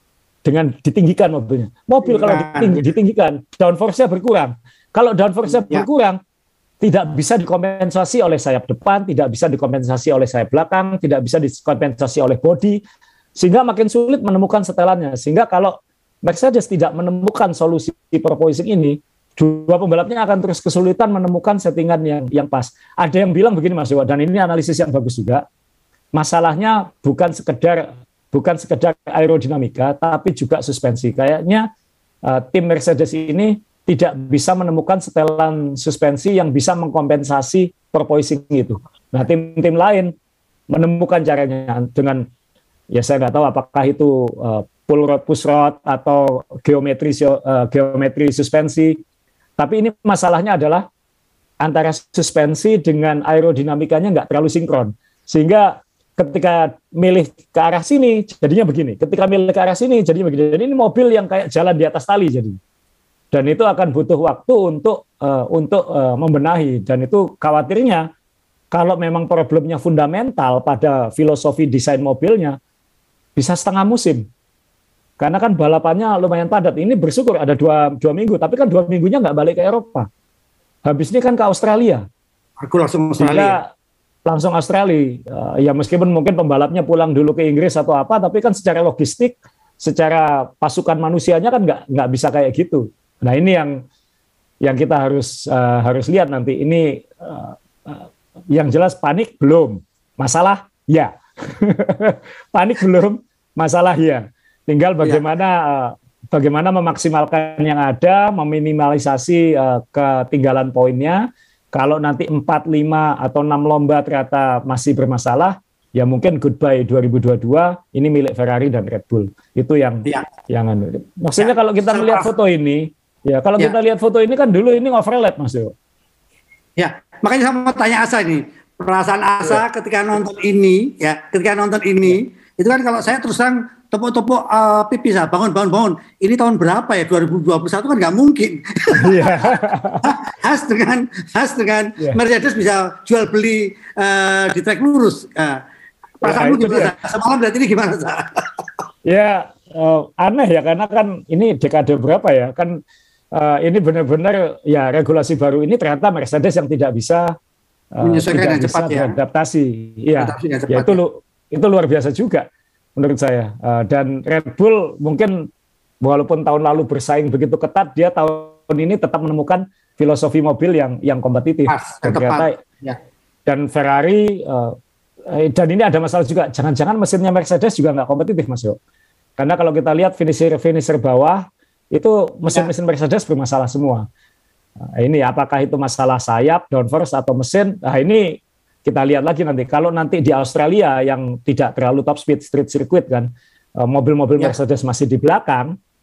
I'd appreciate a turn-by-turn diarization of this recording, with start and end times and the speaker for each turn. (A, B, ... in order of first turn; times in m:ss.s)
0:00.4-0:06.2 A
0:02.0-0:02.9 B
0:05.5-0:05.9 B
0:06.8-0:12.8 A
0:13.4-0:25.4 A
0:26.1-0:31.7 A
0:32.2-0:40.1 A
0:40.7-0:42.2 A
0:42.9-0:49.0 A
0:49.6-0:50.9 A
0:51.6-1:02.6 A
1:03.3-1:08.1 A
1:08.7-1:12.6 A
1:13.4-1:14.2 A
1:15.2-1:20.1 A
1:20.9-1:22.0 A
1:22.6-1:23.6 B
1:23.2-1:23.7 A
1:24.3-1:33.8 A
1:34.6-2:05.7 A
2:01.4-2:02.3 B
2:06.8-2:25.6 B
2:18.9-2:20.1 A
2:26.2-2:28.7 B
2:26.2-2:26.9 A
2:29.1-2:32.8 A
2:33.3-2:37.3 A
2:38.0-2:45.5 A
2:38.0-2:39.1 B
2:40.2-2:41.0 B
2:46.0-2:52.6 A
2:51.7-2:53.0 B
2:53.5-2:54.8 A
2:55.3-2:58.8 A
2:59.4-3:04.0 A
3:04.8-3:15.8 A